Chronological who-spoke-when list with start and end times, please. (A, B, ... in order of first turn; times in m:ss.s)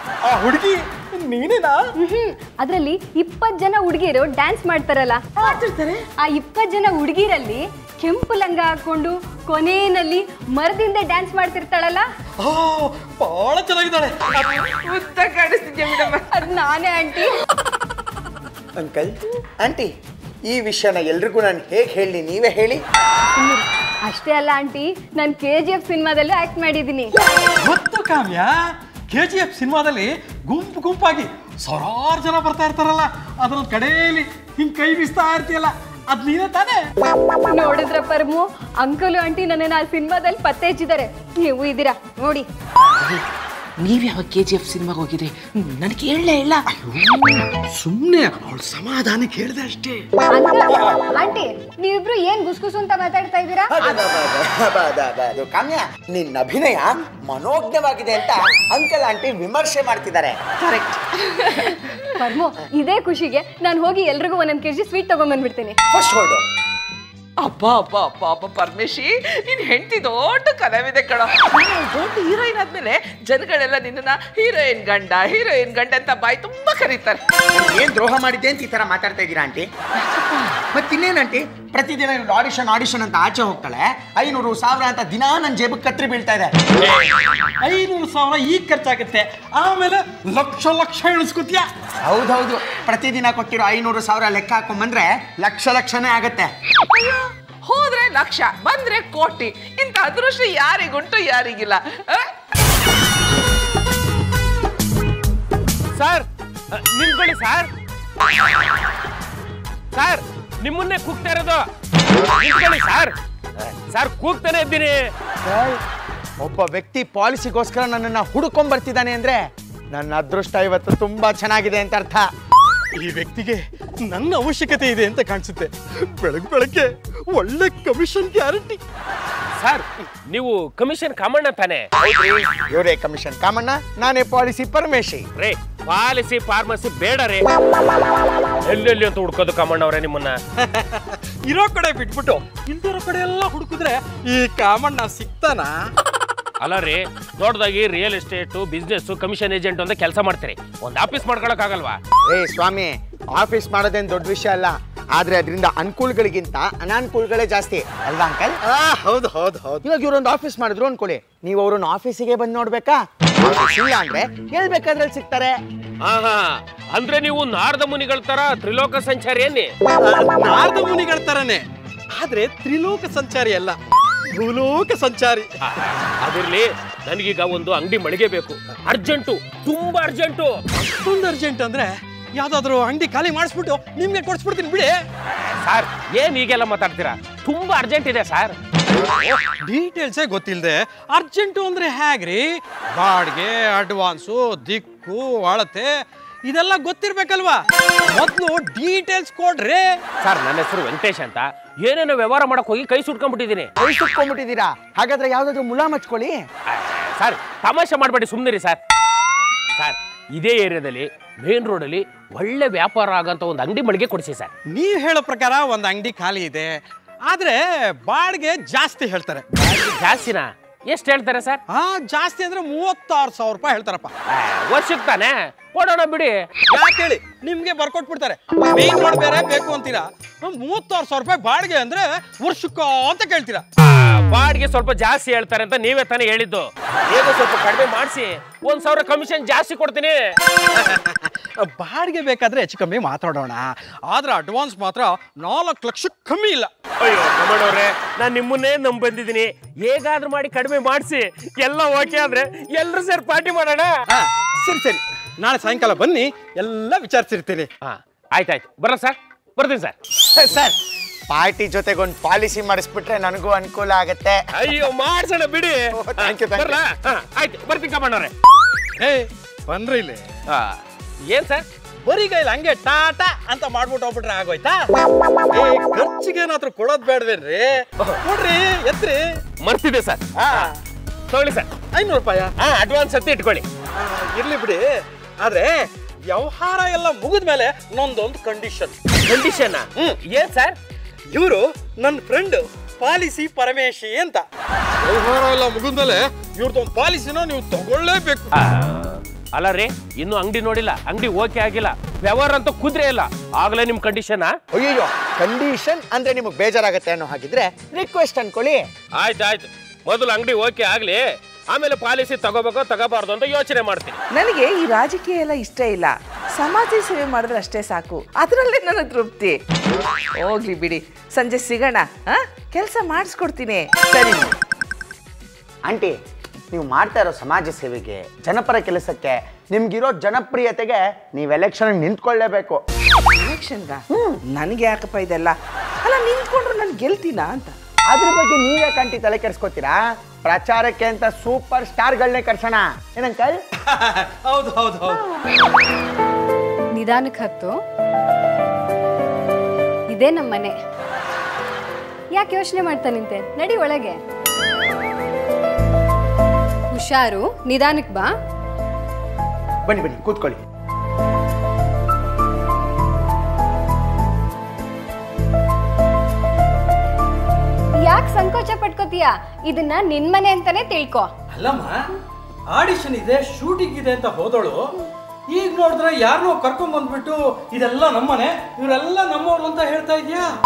0:00.2-0:01.8 A
0:02.0-0:05.6 B
0:05.4-0:06.0 C
0:06.2-0:12.0 B
0:12.4-0:14.6 A
0:14.7-0:16.4 C
0:16.3-0:17.3 B
0:18.8-0:19.9 D
0:20.5-0:22.8 D
0:23.3-0:27.1 B
0:27.6-0:36.8 A
0:37.5-0:42.5 B
0:42.9-0:43.2 C
0:43.8-0:46.6 C
0:46.7-0:50.1 A
0:50.3-0:53.7 B
0:53.7-1:00.4 D
1:00.6-1:02.2 C
1:02.2-1:05.8 B
1:05.9-1:06.4 D
1:07.4-1:17.2 C
1:17.5-1:19.7 D
1:20.0-1:20.6 C
1:20.7-1:26.6 D
1:27.6-1:31.7 A
1:32.0-1:36.5 D
1:36.9-1:42.3 C
1:46.0-1:47.7 E
1:49.9-1:51.6 E
1:52.4-1:55.0 E
1:55.4-1:55.8 D
1:56.4-1:59.4 D
1:59.9-2:02.2 D
2:02.9-2:08.8 A
2:09.6-2:12.4 E
2:12.0-2:15.2 D
2:15.4-2:17.5 E
2:18.7-2:20.3 E
2:20.6-2:25.7 A
2:26.6-2:32.0 E
2:32.3-2:38.6 D
2:38.6-2:39.8 A
2:39.8-2:45.5 D
2:46.0-2:49.7 E
2:50.0-2:53.8 A
2:54.3-2:55.5 A
2:55.6-3:00.6 E
3:00.7-3:04.9 A
3:05.3-3:08.5 E
3:09.0-3:15.9 A
3:16.4-3:19.9 A
3:20.2-3:23.7 E
3:23.8-3:26.4 D
3:26.7-3:28.8 E
3:29.8-3:34.5 E
3:34.7-3:39.4 A
3:39.5-3:41.6 E
3:41.7-3:44.1 A
3:44.3-3:46.4 E
3:46.7-3:53.6 A
3:53.8-4:00.2 E
4:00.8-4:06.7 A
4:07.0-4:13.9 E
4:14.1-4:17.7 A
4:17.8-4:19.9 E
4:20.3-4:20.8 D
4:21.3-4:24.4 D
4:24.5-4:28.3 E
4:25.9-4:26.8 D
4:29.0-4:30.2 A
4:30.5-4:31.6 E
4:32.0-4:34.8 A
4:35.5-4:39.2 A
4:39.6-4:40.7 E
4:40.4-4:40.8 A
4:41.3-4:41.7 E
4:41.9-4:42.5 A
4:42.6-4:43.6 E
4:44.0-4:44.8 A
4:45.4-4:49.0 A
4:49.2-4:50.8 E
4:51.3-4:54.4 A
4:55.0-4:58.5 A
4:58.6-5:04.5 E
5:04.7-5:08.8 D
5:09.2-5:14.2 E
5:14.3-5:19.6 C
5:20.4-5:24.6 C
5:25.9-5:26.1 D
5:26.7-5:32.8 D
5:33.3-5:37.7 C
5:34.1-5:34.4 D
5:38.1-5:43.6 D
5:43.8-5:45.2 A
5:46.9-5:47.7 B
5:50.1-5:50.7 B
5:52.3-5:54.2 B
5:56.9-5:58.3 B
5:59.8-6:00.6 D
6:08.0-6:11.3 B
6:11.5-6:11.9 A
6:12.7-6:14.8 A
6:15.5-6:20.5 A